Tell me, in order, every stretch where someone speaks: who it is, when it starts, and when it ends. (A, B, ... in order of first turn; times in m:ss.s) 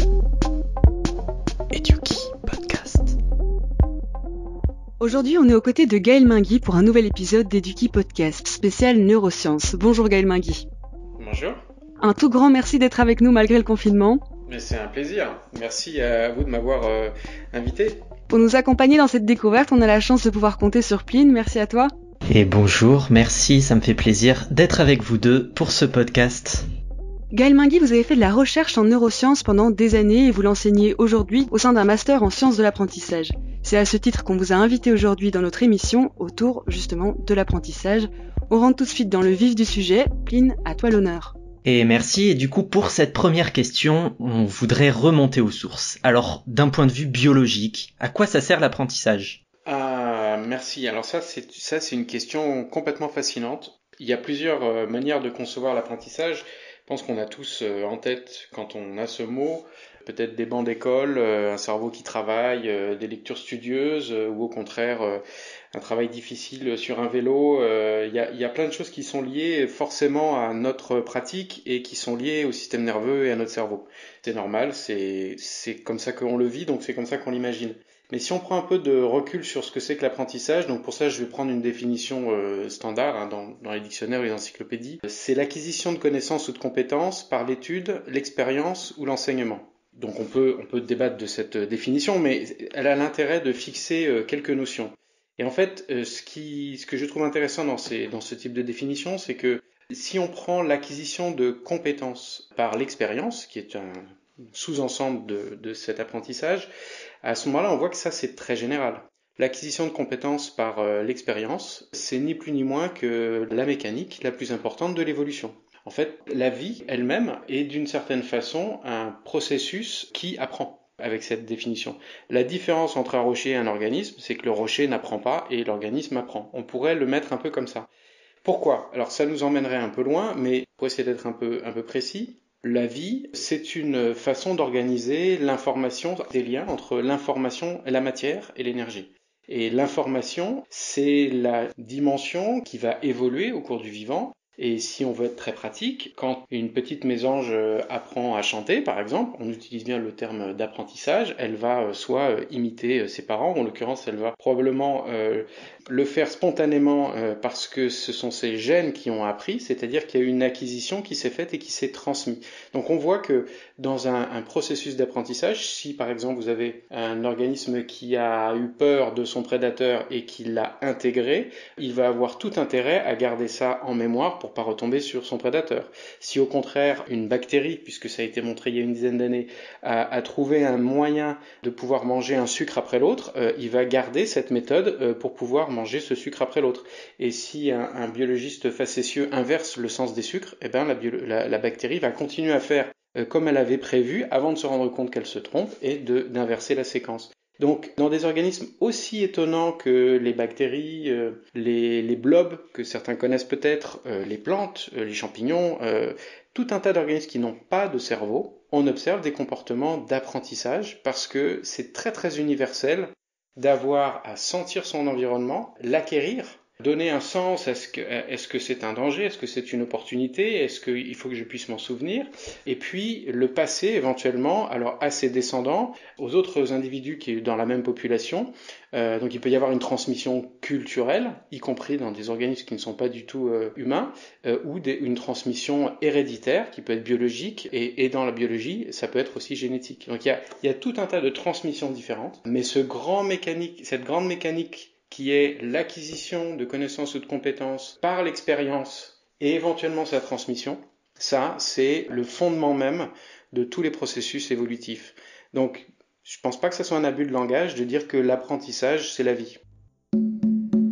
0:01.7-0:03.2 A
0:05.0-0:10.7 B
0:11.2-0:11.6 C
0:12.0-0:14.2 B
0:14.5-0:18.1 C
0:18.3-0:21.9 B
0:22.3-0:26.7 A
0:27.3-0:41.4 B
0:41.6-0:49.4 A
0:49.6-1:05.2 C
1:05.7-1:46.7 C
1:47.2-2:07.9 C
2:08.4-4:19.6 C